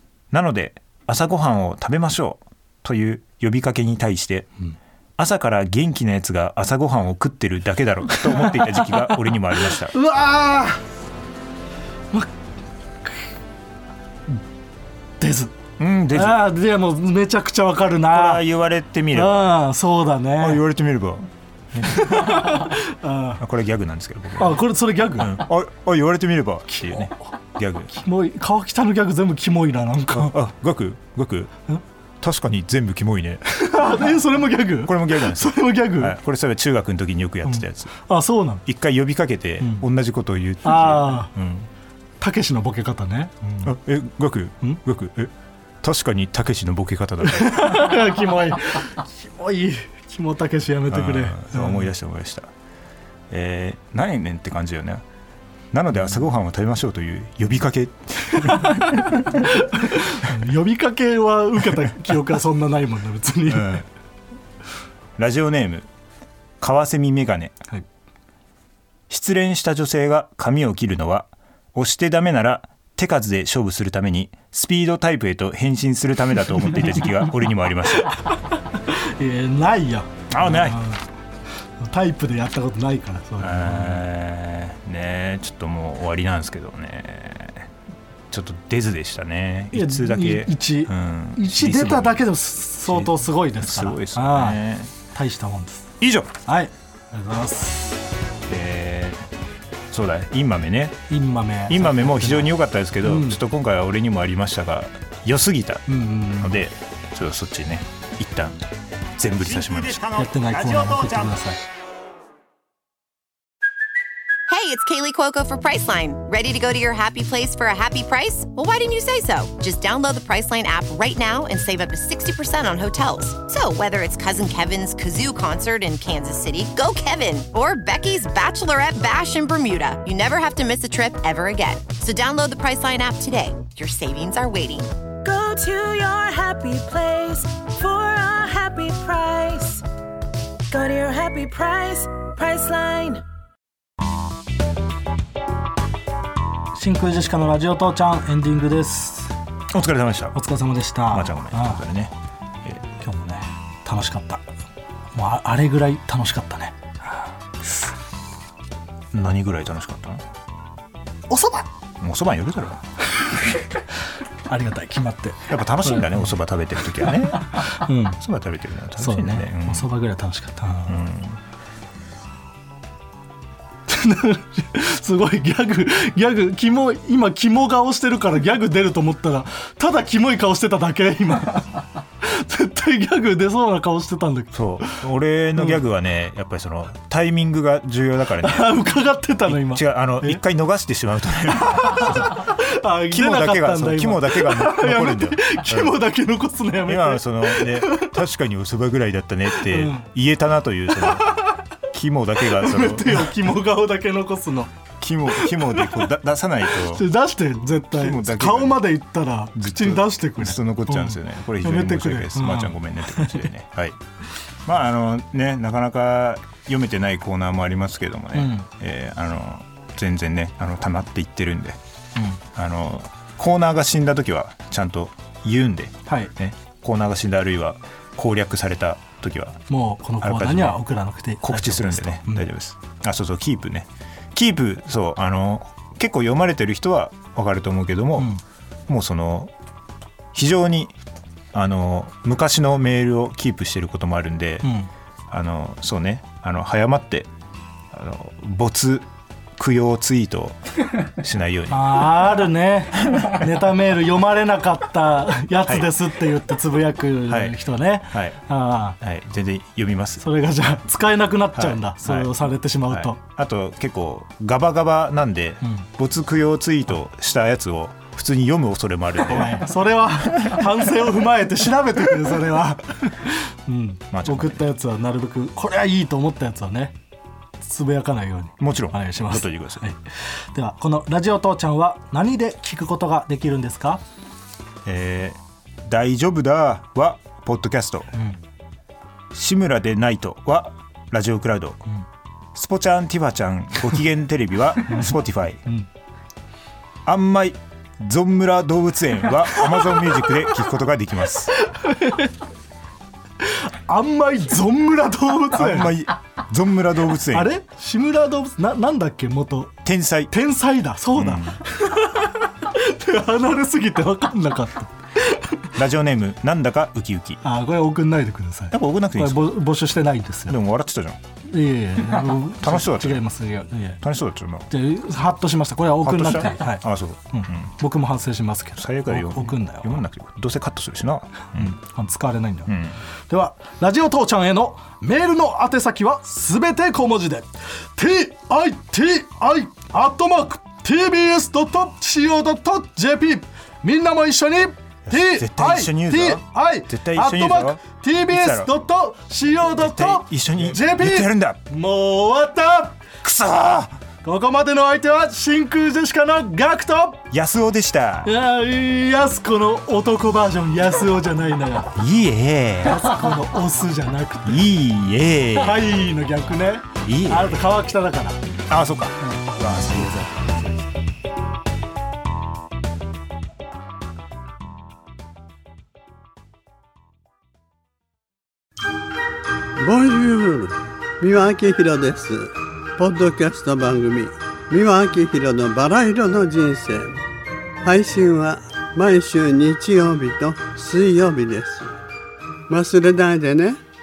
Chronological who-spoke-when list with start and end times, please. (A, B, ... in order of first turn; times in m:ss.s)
0:00.3-0:04.5 A
0:05.2-0:09.9 A
0:08.3-0:09.2 B
0:09.8-0:10.8 B
0:15.2-0:15.6 B
0:15.8-0:16.4 A
0:16.1-0:18.4 B
0:18.1-0:19.4 A
0:19.1-0:20.6 B
0:20.4-0:22.7 A
0:21.8-0:23.4 B
0:23.4-0:27.9 A
0:24.4-0:25.4 B
0:26.7-0:27.3 B
0:27.9-0:30.3 B
0:30.1-0:31.5 A
0:32.2-0:33.9 A
0:33.5-0:36.2 B
0:34.7-0:37.9 A
0:37.5-0:38.6 B
0:38.6-0:41.7 A
0:40.6-0:41.3 B
0:42.2-0:43.7 B
0:43.6-0:48.0 A
0:47.3-0:51.8 B
0:50.9-0:52.5 A
0:53.3-0:55.0 A
0:55.7-0:59.0 A
0:58.3-1:03.8 B
1:03.5-1:03.8 A
1:05.2-1:05.9 A
1:06.6-1:07.6 A
1:09.1-1:18.2 A
1:18.2-1:21.0 B
1:20.3-1:20.8 A
1:21.8-1:24.0 B
1:23.4-1:27.7 A
1:28.3-1:32.2 A
1:29.7-1:35.9 B
1:32.8-1:34.9 A
1:36.0-1:36.4 A
1:36.4-1:38.0 B
1:38.5-1:39.3 A
1:39.9-1:41.0 A
1:41.1-1:43.4 B
1:41.7-1:48.6 A
1:45.9-1:46.5 B
1:49.2-1:51.4 A
1:50.1-1:51.6 B
1:54.5-2:14.9 C
2:15.2-2:19.8 D
2:20.7-2:23.2 D
2:26.7-2:29.3 B
2:29.7-2:30.4 A
2:30.3-2:31.8 B
2:31.1-2:32.1 A
2:33.0-2:34.5 B
2:35.1-2:37.3 B
2:39.1-2:40.2 A
2:41.3-2:41.7 B
2:42.0-2:42.8 A
2:44.5-2:46.3 B
2:45.5-2:49.9 A
2:47.4-2:48.2 B
2:49.0-2:51.0 B
2:50.9-2:51.4 A
2:53.9-3:05.0 B
3:04.5-3:08.8 A
3:08.4-3:10.4 B
3:09.4-3:12.6 A
3:11.7-3:18.1 B
3:13.1-3:16.0 A
3:16.8-3:21.3 A
3:19.6-3:20.0 B
3:21.9-3:23.4 A
3:22.4-3:24.7 B
3:25.0-3:27.0 A
3:25.3-3:26.1 B
3:26.8-3:33.4 B
3:27.9-3:28.9 A
3:29.6-3:34.0 A
3:34.6-3:41.8 A
3:38.3-3:38.7 B
3:42.4-3:49.6 A
3:46.1-3:46.3 B
3:49.7-3:52.5 B
3:50.2-3:50.8 A
3:51.4-3:58.3 A
3:58.2-3:58.4 B
3:58.9-3:59.5 A
4:00.3-4:00.9 A
4:01.5-4:04.7 A
4:04.6-4:04.9 B
4:05.3-4:07.3 A
4:07.9-4:12.3 A
4:11.7-4:19.0 B
4:15.6-4:15.9 A
4:17.3-4:17.6 A
4:18.1-4:18.4 A
4:19.0-4:20.2 A
4:20.2-4:23.2 B
4:21.5-4:22.3 A
4:22.9-4:30.7 A
4:29.2-4:37.0 B
4:34.1-4:34.6 A
4:37.6-4:44.0 B
4:38.6-4:39.8 A
4:44.8-4:48.1 A
4:49.3-4:51.8 A
4:52.5-4:55.6 A
4:57.0-5:01.5 A
5:01.5-5:02.3 B
5:03.4-5:05.9 B
5:05.5-5:07.5 A
5:07.3-5:09.8 B
5:09.8-5:10.3 A
5:10.3-5:15.7 B
5:11.1-5:11.6 A
5:15.7-5:17.4 A
5:17.4-5:20.6 B
5:18.7-5:19.5 A
5:20.5-5:21.2 A
5:21.4-5:24.0 B
5:22.6-5:23.2 A
5:24.0-5:24.7 A
5:24.7-5:30.0 B
5:26.0-5:27.7 A
5:28.8-5:31.8 A
5:31.5-5:32.7 B
5:32.7-5:33.0 A
5:33.3-5:53.0 B
5:45.1-5:47.8 A
5:48.3-5:48.7 A
5:49.8-5:51.6 A
5:53.2-5:54.0 A
5:54.2-5:57.2 B
5:57.3-5:58.3 A
5:58.2-6:01.9 B
6:01.9-6:03.4 A
6:02.8-6:04.7 B
6:04.4-6:05.9 A
6:05.5-6:08.4 B
6:07.0-6:07.7 A
6:08.7-6:10.9 A
6:19.8-6:27.2 E
6:27.8-6:31.9 E
6:32.7-6:33.8 E